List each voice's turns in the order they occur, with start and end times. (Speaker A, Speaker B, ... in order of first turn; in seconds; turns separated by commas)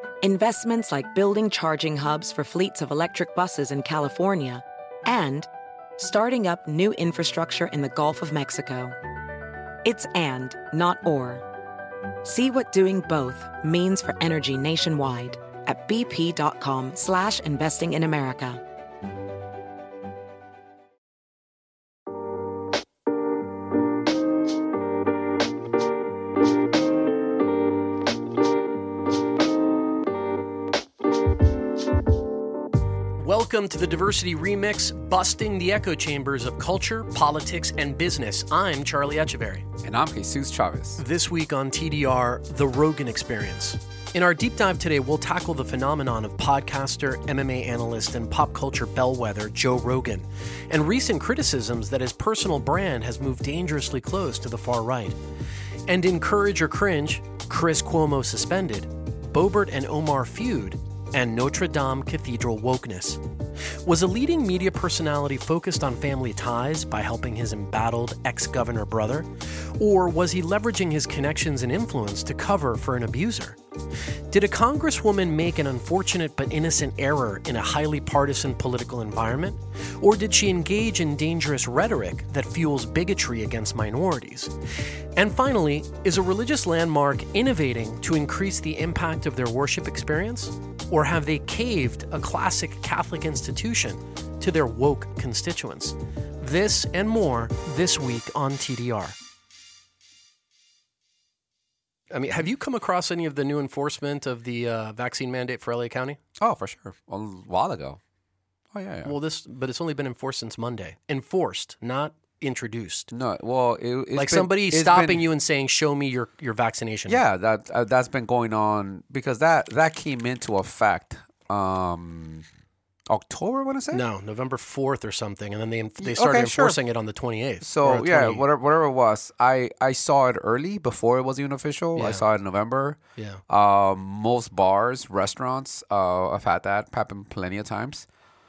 Speaker A: 0.2-9.0, Speaker A: 9.8-11.4, Speaker A: 12.2-18.6, Speaker B: 33.2-39.7, Speaker C: 39.8-41.0, Speaker B: 41.0-55.2, Speaker B: 55.9-73.6, Speaker B: 74.3-84.5, Speaker B: 85.2-99.2, Speaker B: 102.1-106.2, Speaker C: 106.4-108.0, Speaker C: 108.7-109.1, Speaker B: 109.0-113.1, Speaker C: 113.1-115.2, Speaker B: 114.2-117.2, Speaker C: 117.1-122.5, Speaker C: 123.1-124.0, Speaker B: 123.9-128.4, Speaker C: 126.0-126.8, Speaker C: 127.6-138.1, Speaker B: 132.0-132.2, Speaker B: 133.2-133.4